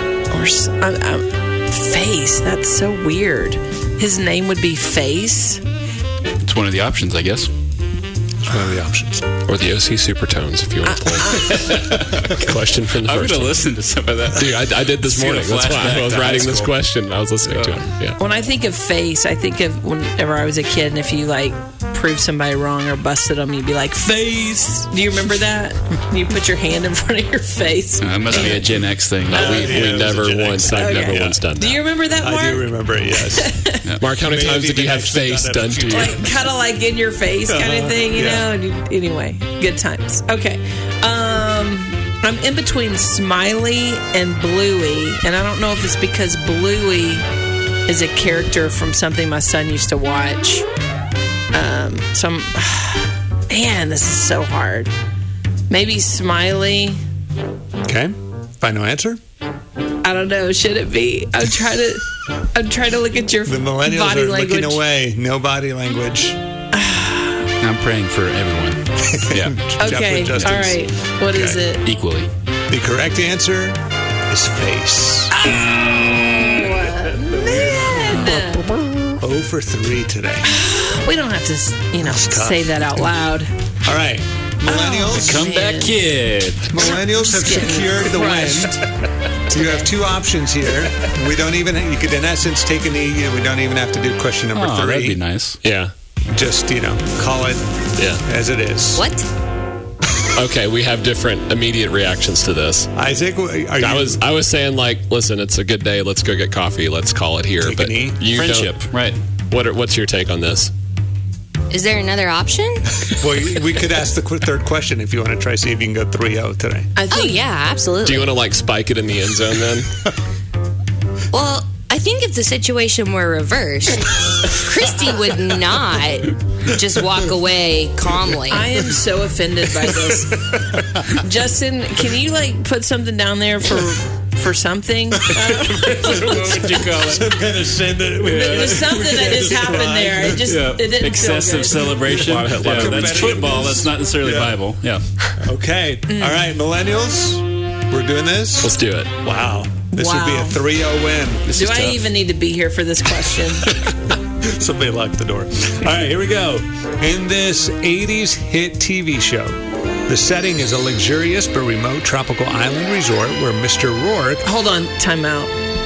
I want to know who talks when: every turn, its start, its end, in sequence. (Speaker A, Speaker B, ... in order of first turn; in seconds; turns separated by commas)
Speaker A: 0.3-5.6, Speaker B: 6.4-7.5, Speaker C: 8.4-9.3, Speaker D: 9.5-11.4, Speaker A: 10.8-11.9, Speaker B: 11.3-16.8, Speaker D: 12.2-13.7, Speaker D: 14.3-18.2, Speaker B: 17.4-17.9, Speaker A: 18.2-28.8, Speaker B: 24.1-24.6, Speaker B: 28.0-30.0, Speaker D: 29.3-31.8, Speaker C: 29.3-31.4, Speaker A: 30.7-33.9, Speaker C: 32.2-33.5, Speaker D: 34.0-36.2, Speaker C: 34.1-36.5, Speaker A: 35.9-47.3, Speaker C: 37.5-38.5, Speaker A: 47.9-50.7, Speaker A: 51.5-54.9, Speaker A: 55.7-57.0, Speaker C: 57.8-59.2, Speaker A: 60.0-64.8, Speaker C: 63.5-66.4, Speaker A: 66.7-67.5, Speaker B: 67.6-69.6, Speaker C: 69.0-71.6, Speaker A: 69.8-71.8, Speaker B: 70.3-70.7, Speaker B: 71.8-72.3, Speaker C: 72.7-73.8, Speaker C: 74.3-75.4, Speaker A: 75.3-78.7, Speaker B: 77.7-78.9, Speaker C: 79.2-80.5, Speaker A: 80.5-83.5, Speaker C: 82.0-82.8, Speaker C: 83.8-85.5, Speaker A: 84.6-86.0, Speaker B: 85.2-86.9, Speaker C: 86.7-88.8, Speaker A: 86.8-88.8, Speaker C: 89.5-95.2, Speaker B: 94.5-95.6, Speaker D: 95.6-95.9, Speaker C: 96.3-97.7, Speaker D: 98.0-98.2, Speaker C: 98.2-99.1, Speaker E: 99.0-99.3, Speaker D: 100.3-102.9, Speaker C: 103.0-104.2, Speaker D: 103.8-108.8, Speaker C: 107.6-108.3, Speaker B: 108.3-109.2, Speaker D: 109.5-110.7, Speaker E: 111.7-112.9, Speaker C: 113.1-116.9, Speaker A: 117.0-117.4, Speaker E: 117.1-118.3, Speaker D: 118.0-119.9, Speaker E: 121.3-128.7, Speaker A: 128.5-136.8, Speaker B: 135.7-137.3, Speaker C: 136.1-140.6, Speaker B: 138.2-139.3, Speaker A: 138.3-142.3, Speaker B: 140.4-145.0, Speaker D: 142.2-143.9, Speaker C: 142.5-144.6, Speaker C: 145.4-151.5, Speaker A: 146.1-146.5, Speaker D: 148.6-149.1, Speaker A: 149.9-150.6, Speaker B: 151.5-152.1, Speaker A: 151.5-153.7, Speaker C: 153.9-164.5, Speaker A: 164.4-165.5